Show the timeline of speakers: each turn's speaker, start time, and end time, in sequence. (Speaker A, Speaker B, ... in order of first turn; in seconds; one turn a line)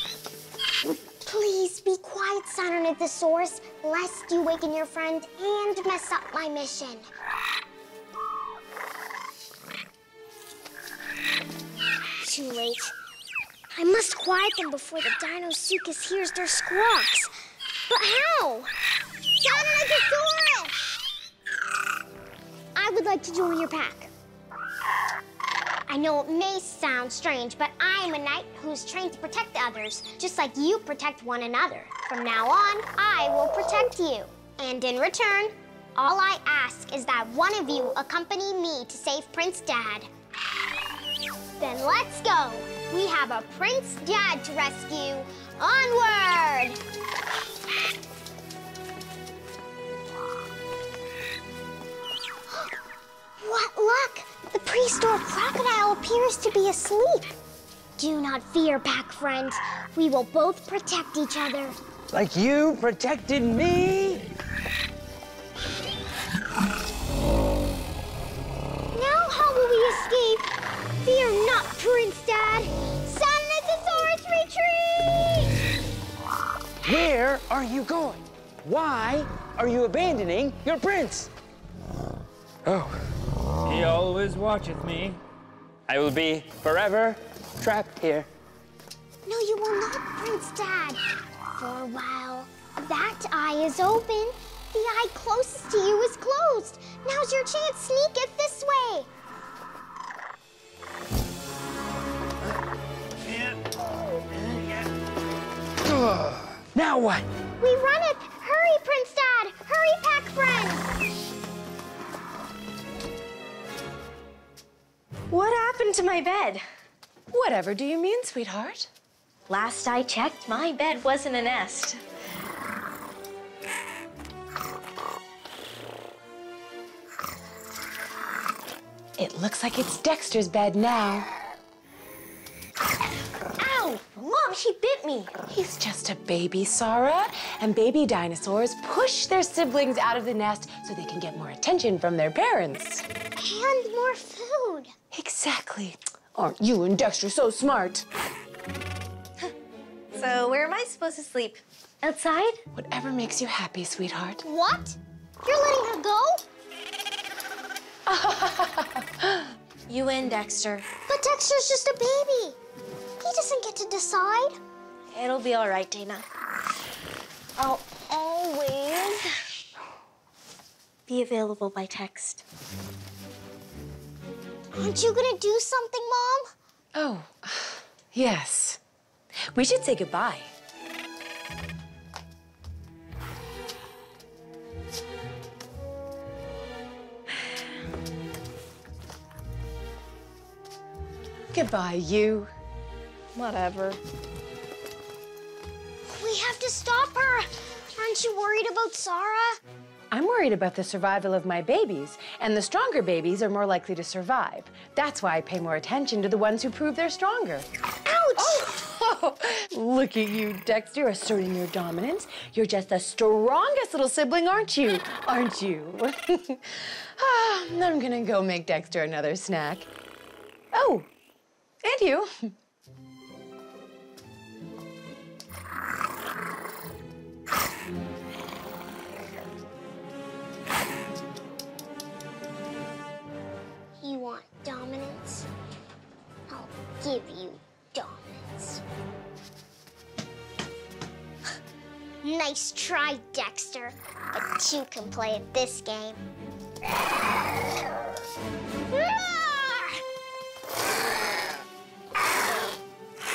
Speaker A: 1.2-7.1
Speaker A: 12.2-12.9
Speaker A: 13.8-17.3
Speaker A: 17.9-18.7
Speaker A: 19.4-20.8
Speaker A: 22.8-24.1
Speaker A: 25.9-40.1
Speaker A: 41.6-46.8
Speaker A: 53.4-57.3
Speaker A: 58.0-61.8
Speaker B: 62.1-64.3
Speaker A: 68.9-70.5
Speaker A: 71.0-75.5
Speaker B: 76.8-81.3
Speaker B: 82.7-83.0
Speaker B: 83.7-85.2
Speaker B: 85.9-88.3
Speaker A: 89.3-91.0
Speaker A: 91.6-99.1
Speaker B: 103.2-103.6
Speaker B: 104.3-104.9
Speaker B: 105.9-107.3
Speaker A: 107.6-110.9
Speaker C: 115.3-116.7
Speaker D: 117.3-118.9
Speaker C: 119.5-122.0
Speaker D: 129.2-131.3
Speaker C: 133.6-135.3
Speaker D: 135.5-143.1
Speaker A: 143.4-144.9
Speaker D: 145.1-148.1
Speaker C: 150.1-152.6
Speaker D: 152.7-154.4
Speaker A: 154.4-156.4
Speaker D: 158.1-159.4
Speaker C: 159.9-160.9
Speaker A: 161.1-162.6
Speaker A: 163.2-164.6
Speaker C: 165.1-166.3
Speaker A: 167.6-169.3
Speaker C: 171.1-172.4
Speaker A: 174.8-176.5
Speaker D: 176.9-178.8
Speaker D: 179.5-180.5
Speaker D: 191.5-192.5
Speaker C: 193.3-194.0
Speaker A: 196.1-199.6
Speaker D: 200.1-207.7
Speaker A: 208.1-208.7
Speaker D: 208.4-219.9
Speaker D: 220.7-221.1
Speaker D: 221.8-222.5
Speaker A: 234.0-235.5
Speaker A: 236.5-238.8
Speaker A: 242.2-246.2
Speaker A: 248.9-250.0